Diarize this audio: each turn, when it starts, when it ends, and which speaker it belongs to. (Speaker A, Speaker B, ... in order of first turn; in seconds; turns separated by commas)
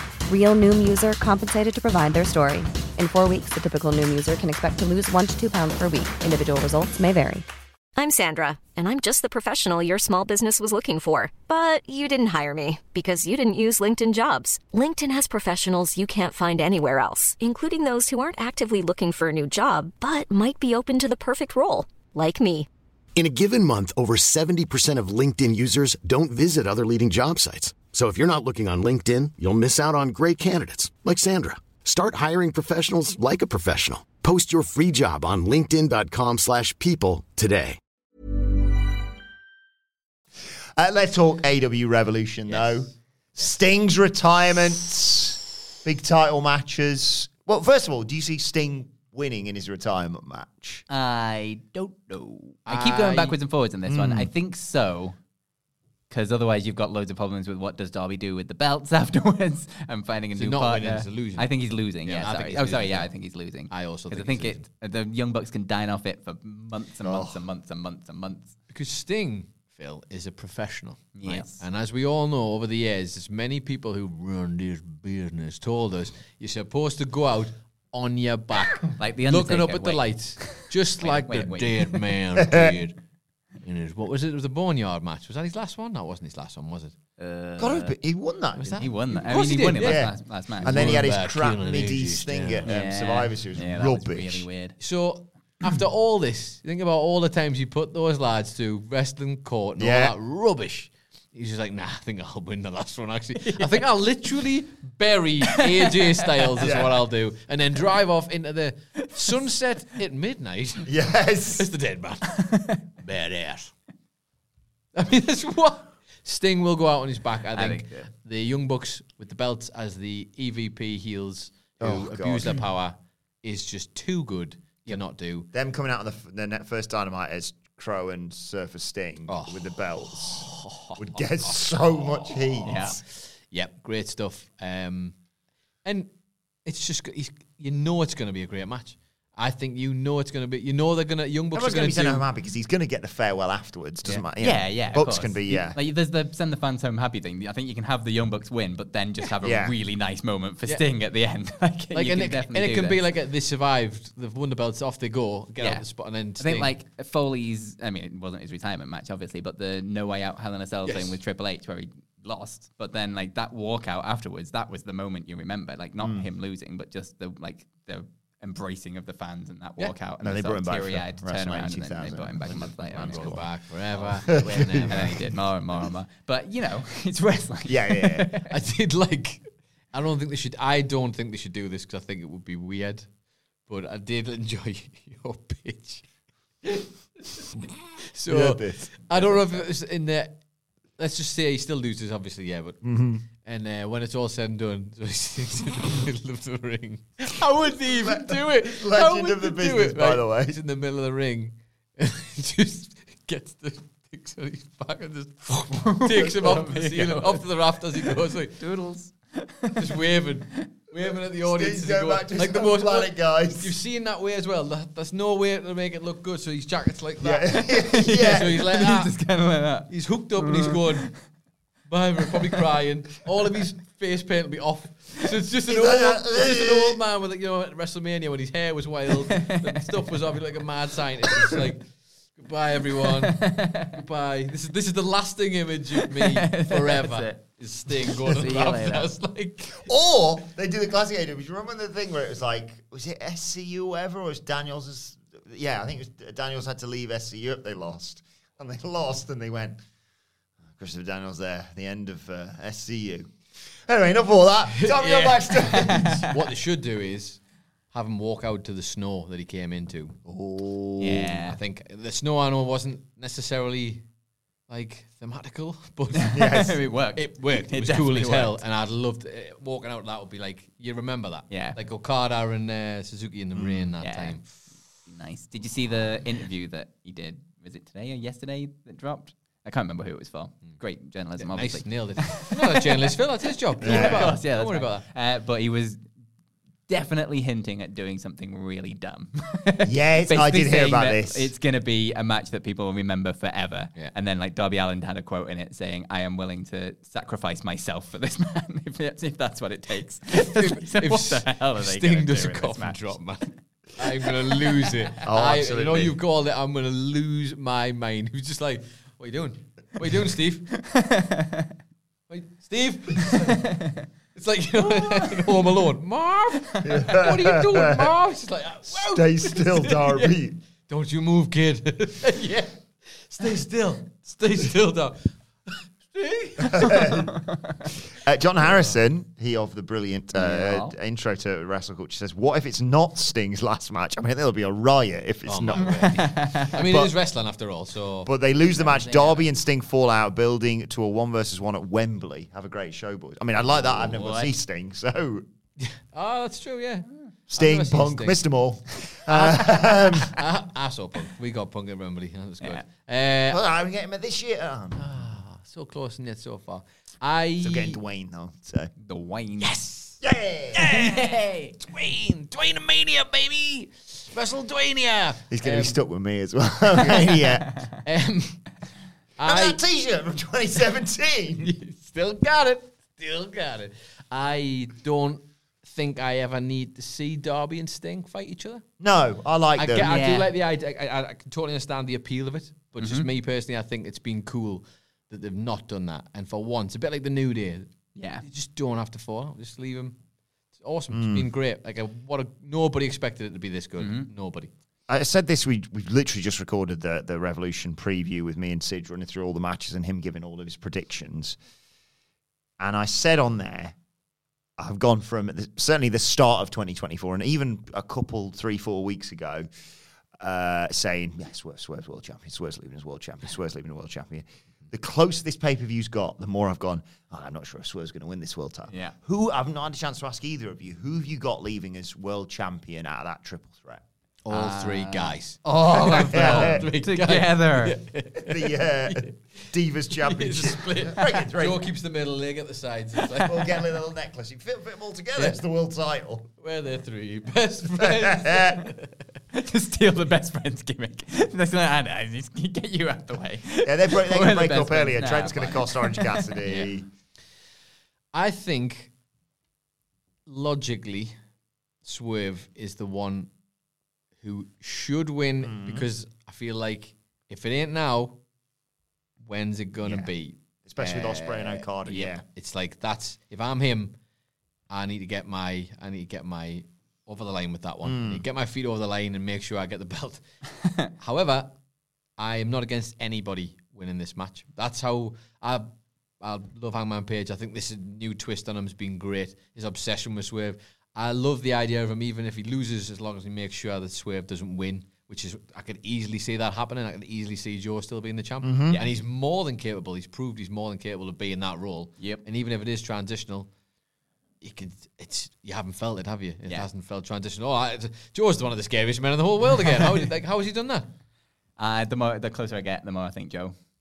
Speaker A: 0.3-7.4, Speaker B: 8.0-22.7, Speaker C: 23.1-37.8, Speaker D: 40.8-50.8, Speaker E: 50.9-55.2, Speaker F: 52.6-53.4, Speaker D: 53.9-54.3, Speaker E: 56.1-68.5, Speaker F: 60.3-61.5, Speaker F: 62.0-63.1, Speaker F: 63.7-64.6, Speaker D: 67.0-67.4, Speaker F: 68.7-83.0, Speaker E: 71.2-71.6, Speaker E: 79.0-82.0, Speaker D: 82.4-82.7, Speaker F: 83.6-86.9, Speaker E: 87.2-87.9, Speaker D: 87.6-88.9, Speaker F: 88.6-92.7, Speaker E: 88.8-91.0, Speaker D: 89.8-94.5, Speaker E: 92.6-94.8, Speaker F: 94.8-110.9, Speaker D: 99.8-100.1, Speaker D: 106.6-107.0, Speaker D: 110.8-111.7, Speaker F: 111.5-113.7, Speaker E: 112.5-112.8, Speaker F: 114.9-125.5, Speaker E: 117.5-118.0, Speaker D: 121.8-122.6, Speaker D: 125.5-133.0, Speaker F: 129.3-135.1, Speaker E: 132.7-133.0, Speaker F: 136.6-142.2, Speaker D: 141.5-145.8, Speaker E: 144.4-153.0, Speaker D: 149.4-149.7, Speaker F: 151.9-156.7, Speaker E: 155.6-155.8, Speaker E: 156.4-173.4, Speaker F: 160.8-161.1, Speaker D: 166.0-166.3, Speaker D: 170.2-173.6, Speaker F: 172.4-175.3, Speaker D: 174.1-175.2, Speaker E: 174.3-178.5, Speaker D: 177.7-178.3, Speaker F: 178.5-183.1, Speaker F: 183.7-186.0, Speaker F: 186.6-187.5, Speaker F: 188.1-190.4, Speaker D: 188.2-189.6, Speaker F: 191.0-192.9, Speaker D: 192.8-193.2, Speaker F: 193.4-208.6, Speaker D: 197.9-200.6, Speaker E: 205.8-207.4, Speaker E: 208.6-209.9, Speaker F: 209.7-219.1, Speaker D: 211.4-213.8, Speaker D: 217.2-218.6, Speaker E: 217.8-221.1, Speaker F: 219.9-221.1, Speaker F: 221.9-239.9, Speaker D: 225.7-227.0, Speaker E: 229.3-229.8, Speaker E: 233.2-233.9, Speaker E: 236.2-237.3, Speaker E: 238.0-239.1, Speaker D: 239.8-249.8, Speaker D: 250.8-256.2, Speaker F: 254.7-257.4, Speaker E: 255.7-256.2, Speaker F: 257.9-260.2, Speaker D: 260.2-261.4, Speaker E: 261.0-261.6, Speaker F: 261.4-264.0, Speaker F: 264.7-274.5, Speaker E: 266.2-268.6, Speaker D: 266.3-266.8, Speaker E: 271.5-271.8, Speaker D: 273.6-273.9, Speaker E: 274.0-274.4, Speaker E: 275.1-283.1, Speaker F: 281.4-285.1, Speaker E: 283.8-286.0, Speaker D: 283.8-284.4, Speaker E: 286.9-303.2, Speaker D: 289.8-291.5, Speaker F: 300.3-310.7, Speaker D: 305.2-306.1, Speaker E: 310.8-311.7, Speaker F: 312.3-313.6, Speaker E: 313.4-314.0, Speaker F: 314.3-327.0, Speaker E: 314.8-315.7, Speaker D: 316.8-318.1, Speaker D: 318.9-320.6, Speaker E: 326.6-327.6, Speaker D: 326.6-327.3, Speaker D: 328.1-337.1, Speaker E: 330.4-330.9, Speaker F: 335.4-338.3, Speaker E: 335.7-336.8, Speaker D: 338.2-345.4, Speaker E: 338.8-339.4, Speaker E: 343.9-344.5, Speaker F: 345.8-348.4, Speaker D: 347.5-350.4, Speaker F: 349.3-353.6, Speaker D: 353.5-355.2, Speaker F: 354.9-358.0, Speaker D: 357.6-358.9, Speaker E: 359.0-359.8, Speaker F: 359.6-360.1, Speaker D: 360.2-361.0, Speaker F: 360.7-366.0, Speaker E: 360.9-361.7, Speaker D: 365.5-367.7, Speaker E: 367.3-367.9, Speaker F: 368.0-368.6, Speaker F: 369.4-369.8, Speaker D: 369.4-371.7, Speaker F: 371.6-378.8, Speaker D: 379.0-380.1, Speaker F: 379.8-387.9, Speaker E: 380.0-380.5, Speaker E: 383.0-383.3, Speaker E: 388.1-388.4, Speaker F: 388.4-390.1, Speaker F: 390.8-394.7, Speaker D: 391.1-391.5, Speaker E: 394.0-394.3, Speaker D: 395.1-401.6, Speaker D: 402.8-403.9, Speaker D: 404.8-409.7, Speaker D: 410.4-424.0, Speaker F: 424.4-429.3, Speaker E: 424.5-428.0, Speaker D: 425.7-426.9, Speaker D: 428.4-431.9, Speaker F: 430.2-433.9, Speaker D: 433.3-436.5, Speaker F: 436.6-439.1, Speaker D: 438.0-438.8, Speaker E: 439.5-446.9, Speaker D: 443.8-447.1, Speaker F: 448.3-449.1, Speaker F: 450.5-451.3, Speaker F: 452.0-453.5, Speaker F: 454.4-458.4, Speaker D: 455.6-456.1, Speaker F: 459.4-464.1, Speaker D: 460.0-460.3, Speaker D: 460.9-462.4, Speaker F: 464.9-470.4, Speaker D: 468.0-468.4, Speaker F: 471.2-471.7, Speaker F: 472.4-475.9, Speaker F: 476.4-493.7, Speaker D: 488.6-489.0, Speaker F: 494.6-501.1, Speaker E: 501.8-503.7